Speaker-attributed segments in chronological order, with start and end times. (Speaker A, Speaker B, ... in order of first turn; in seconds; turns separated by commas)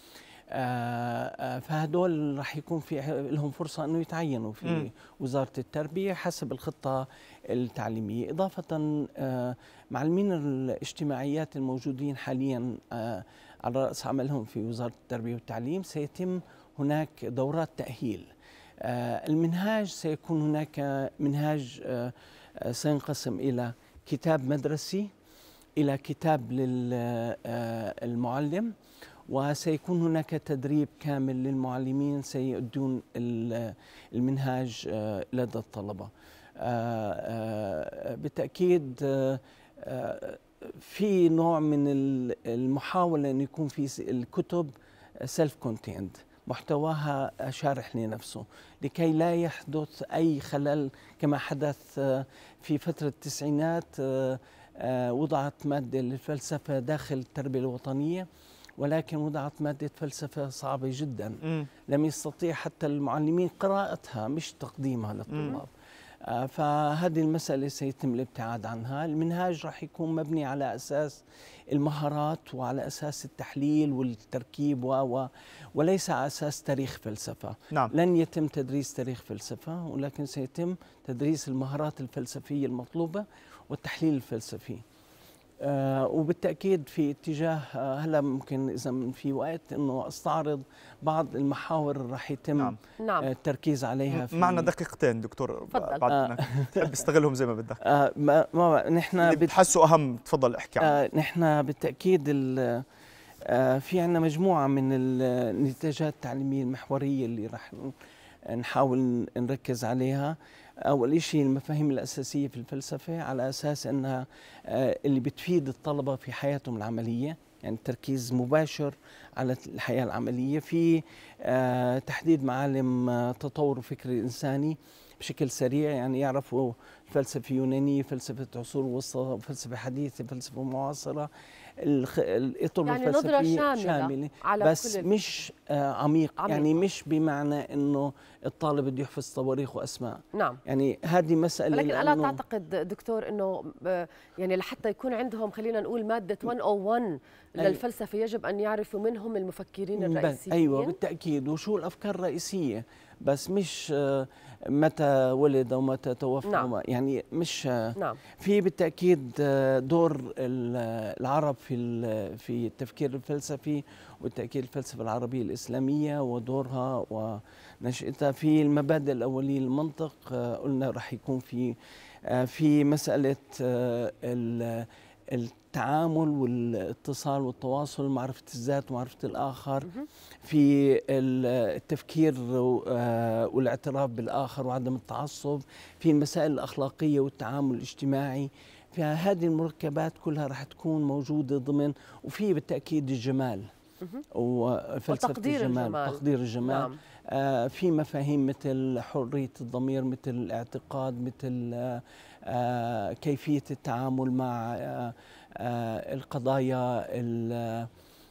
Speaker A: 0.5-25.1, Speaker A: 25.8-28.7, Speaker A: 29.3-65.7, Speaker A: 66.2-84.8, Speaker A: 85.6-94.7, Speaker B: 93.0-93.3, Speaker C: 94.1-97.8, Speaker B: 95.7-96.0, Speaker A: 96.1-96.9, Speaker A: 97.8-99.6, Speaker C: 99.2-101.0, Speaker A: 100.8-102.8, Speaker A: 103.4-107.9, Speaker A: 108.4-142.4, Speaker B: 132.8-135.1, Speaker B: 136.4-136.7, Speaker B: 140.3-140.6, Speaker B: 141.7-151.0, Speaker A: 147.6-147.8, Speaker A: 149.9-179.9, Speaker B: 156.4-156.7, Speaker A: 180.4-193.7, Speaker A: 194.3-207.9, Speaker B: 195.1-197.0